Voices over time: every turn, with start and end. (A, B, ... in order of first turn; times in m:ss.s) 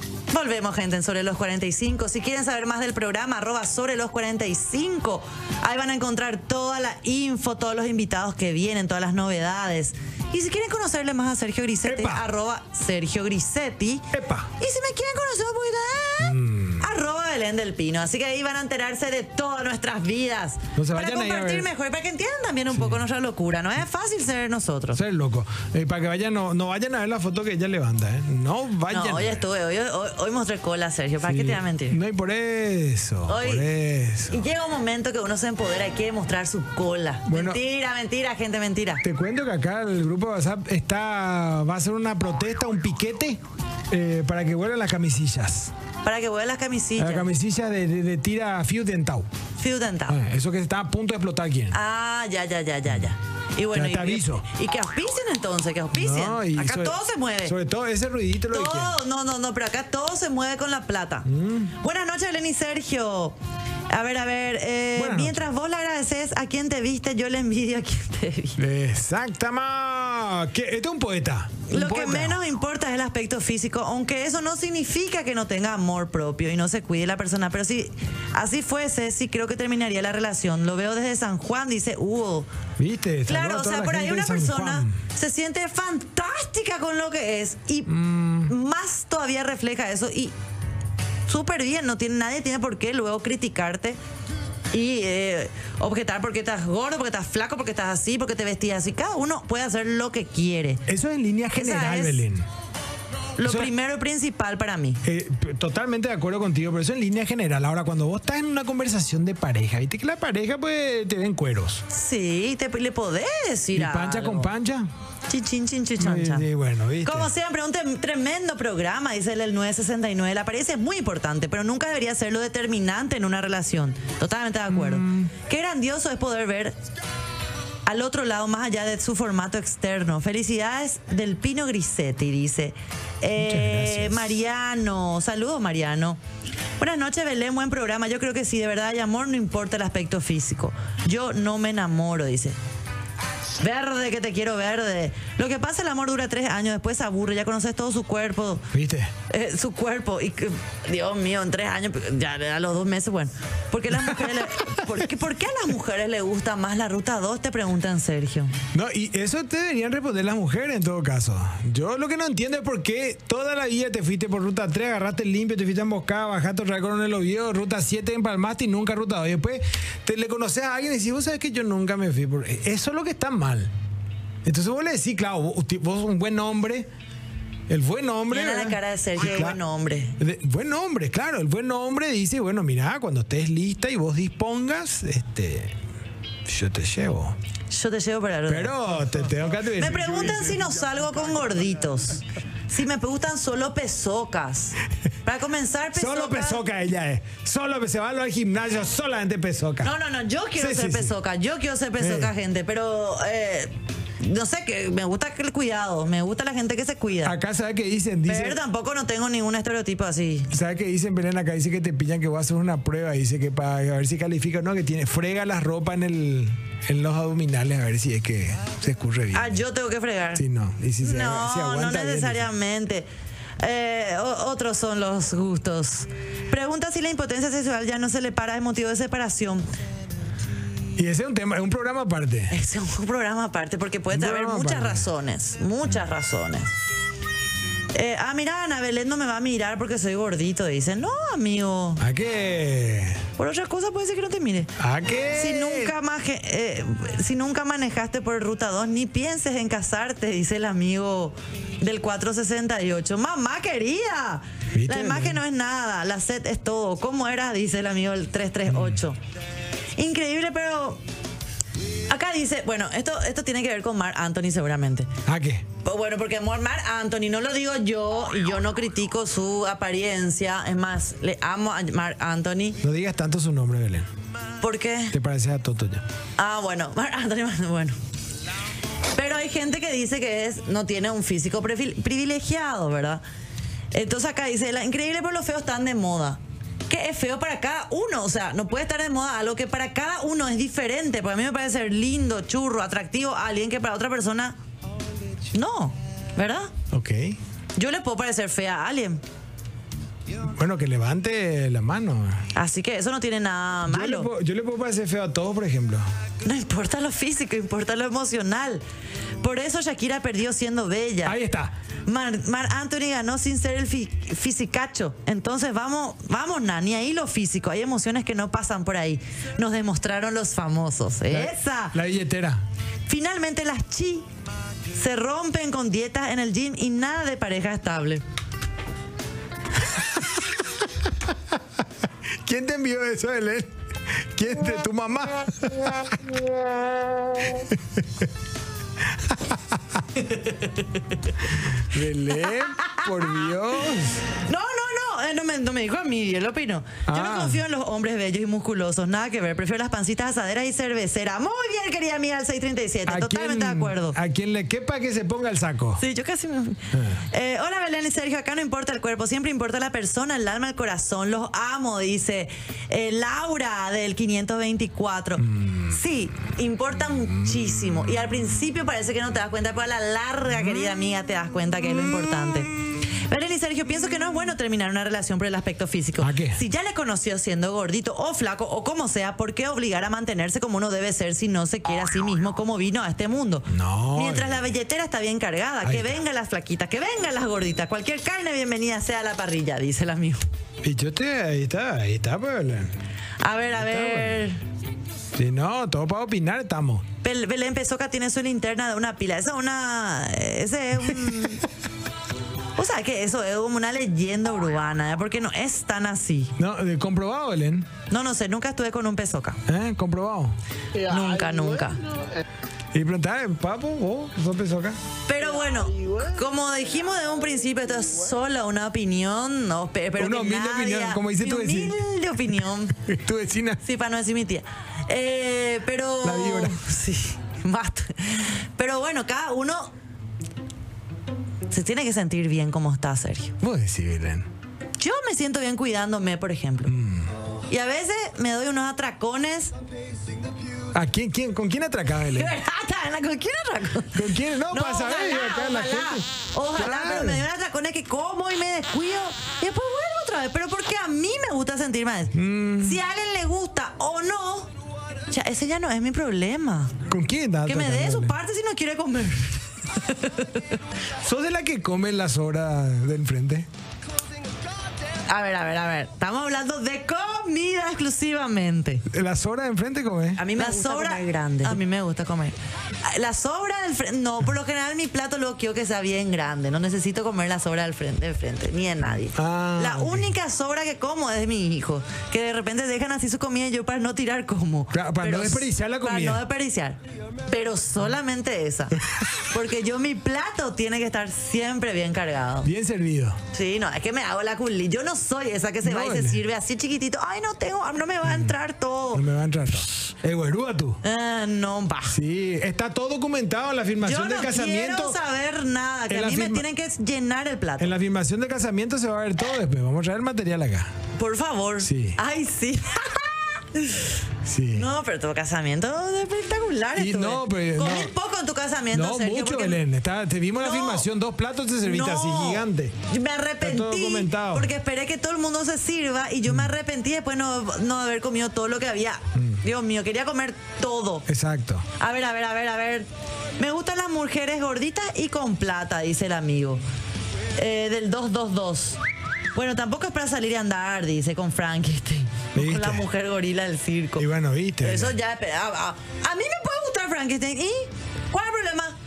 0:00.3-0:14.1 A
0:11.8-0:12.3 B
0:14.1-0:14.5 B
0:14.6-0:25.0 A
0:16.2-0:16.9 B
0:20.8-0:21.7 B
0:22.7-0:23.0 B
0:24.9-0:29.4 B
0:28.9-0:32.0 A
0:31.2-0:34.4 B
0:33.3-0:33.7 A
0:34.3-0:39.0 A
0:37.2-0:37.6 B
0:39.0-0:43.4 B
0:43.9-0:45.7 B
0:46.0-0:47.3 A
0:47.0-0:49.3 B
0:49.6-0:50.2 A
0:50.1-0:51.8 B
0:51.7-0:57.6 A
0:53.7-0:54.4 B
0:55.9-0:59.0 B
0:58.5-1:03.4 A
1:01.2-1:01.7 B
1:03.9-1:08.6 A
1:05.0-1:05.4 B
1:08.6-1:12.4 B
1:11.7-1:22.5 A
1:22.8-1:25.0 B
1:23.3-1:27.9 A
1:27.9-1:28.5 B
1:28.4-1:30.3 A
1:31.3-1:34.0 A
1:34.7-1:40.8 A
1:40.9-1:42.4 B
1:41.5-1:42.2 A
1:43.4-1:45.0 A
1:43.4-1:43.7 B
1:45.0-1:51.8 B
1:51.9-1:54.5 A
1:53.7-1:54.9 B
1:55.3-1:56.5 A
1:56.0-1:57.3 B
1:57.0-2:06.8 A
2:04.7-2:05.3 B
2:07.8-2:16.2 A
2:13.4-2:14.3 B
2:16.8-2:22.6 A
2:23.6-2:28.6 A
2:28.7-2:29.1 B
2:29.3-2:38.5 A
2:34.0-2:34.8 B
2:38.7-2:53.7 B
2:54.4-2:56.9 B
2:57.7-2:59.6 B
2:58.3-3:00.2 A
3:00.2-3:05.8 B
3:06.4-3:07.4 B
3:07.7-3:08.8 A
3:08.5-3:10.6 B
3:09.6-3:16.6 A
3:15.9-3:19.9 B
3:19.8-3:27.4 A
3:20.6-3:21.1 B
3:22.0-3:22.3 B
3:27.2-3:28.6 B
3:28.3-3:30.5 A
3:30.5-3:39.6 B
3:39.3-3:40.4 A
3:40.3-3:42.5 B
3:41.0-3:43.1 A
3:43.6-3:49.7 A
3:51.0-3:52.5 B
3:52.5-3:56.7 A
3:54.1-3:55.1 B
3:57.9-4:02.0 A
4:02.0-4:03.2 B
4:03.4-4:04.7 A
4:04.8-4:05.9 B
4:05.3-4:19.2 A
4:14.7-4:15.4 B
4:18.7-4:19.0 B
4:20.0-4:21.0 A
4:22.1-4:25.1 A
4:25.3-4:25.6 B
4:25.8-4:32.8 A
4:32.8-4:34.1 B
4:34.6-4:35.1 A
4:35.1-4:36.0 B
4:36.4-4:38.0 A
4:39.1-4:43.2 A
4:43.9-4:54.6 A
4:55.5-4:56.7 A
4:56.9-4:57.4 B
4:57.8-4:59.2 A
5:00.5-5:02.4 B
5:02.5-5:04.3 A
5:03.9-5:06.0 B
5:06.4-5:08.8 A
5:09.4-5:11.4 A
5:11.2-5:11.7 B
5:12.0-5:22.0 A
5:21.3-5:22.6 B
5:23.1-5:24.3 A
5:24.9-5:28.2 A
5:32.4-5:36.1 B
5:37.5-5:38.2 B
5:40.2-5:40.7 A
5:41.8-5:44.2 B
5:42.3-5:43.7 A
5:44.3-5:54.2 A
5:47.0-5:47.6 B
5:53.1-5:56.0 B
5:56.0-6:30.4 A
5:56.9-5:57.2 B
6:05.4-6:06.0 B
6:16.2-6:16.6 B
6:23.7-6:24.7 B
6:25.8-6:26.2 B
6:30.8-6:32.9 B
6:33.4-6:34.6 A
6:33.8-6:34.4 B
6:35.4-6:37.0 B
6:37.2-6:41.6 A
6:42.8-6:46.5 A
6:46.6-6:47.9 B
6:48.1-6:49.6 A
6:49.7-6:50.6 B
6:51.0-6:52.0 A
6:52.9-6:55.0 B
6:55.3-7:03.0 A
7:00.2-7:02.0 B
7:03.0-7:03.8 B
7:03.8-7:09.9 A
7:06.2-7:06.8 B
7:11.7-7:13.6 A
7:13.6-7:14.5 B
7:15.0-7:16.9 A
7:16.9-7:17.3 B
7:17.7-7:19.7 A
7:20.9-7:22.5 B
7:22.3-7:34.7 A
7:24.1-7:27.4 B
7:32.3-7:33.0 B
7:35.3-7:36.9 A
7:37.1-7:38.4 B
7:37.6-7:40.6 A
7:41.2-7:43.7 B
7:45.3-7:49.0 A
7:49.1-7:50.5 B
7:50.4-8:12.7 A
7:59.3-8:00.3 B
8:04.9-8:06.4 B
8:12.6-8:13.4 B
8:13.5-8:19.2 A
8:15.8-8:16.4 B
8:18.3-8:18.5 B
8:19.1-8:21.0 B
8:21.0-8:22.2 A
8:22.1-8:25.2 B
8:24.0-8:27.9 A
8:26.1-8:26.6 B
8:27.8-8:30.9 B
8:31.1-8:34.2 A
8:31.8-8:32.2 B
8:34.4-8:34.9 B
8:34.7-8:39.8 A
8:36.9-8:38.1 B
8:38.9-8:42.9 B
8:40.6-8:41.1 A
8:41.8-8:51.3 A
8:43.6-8:44.7 B
8:49.3-8:49.6 B
8:51.3-8:51.9 B
8:52.0-8:53.1 A
8:53.6-8:56.8 A
8:57.6-8:59.0 A
8:59.5-9:04.3 A
9:02.6-9:03.0 B
9:04.2-9:05.1 B
9:04.8-9:09.0 A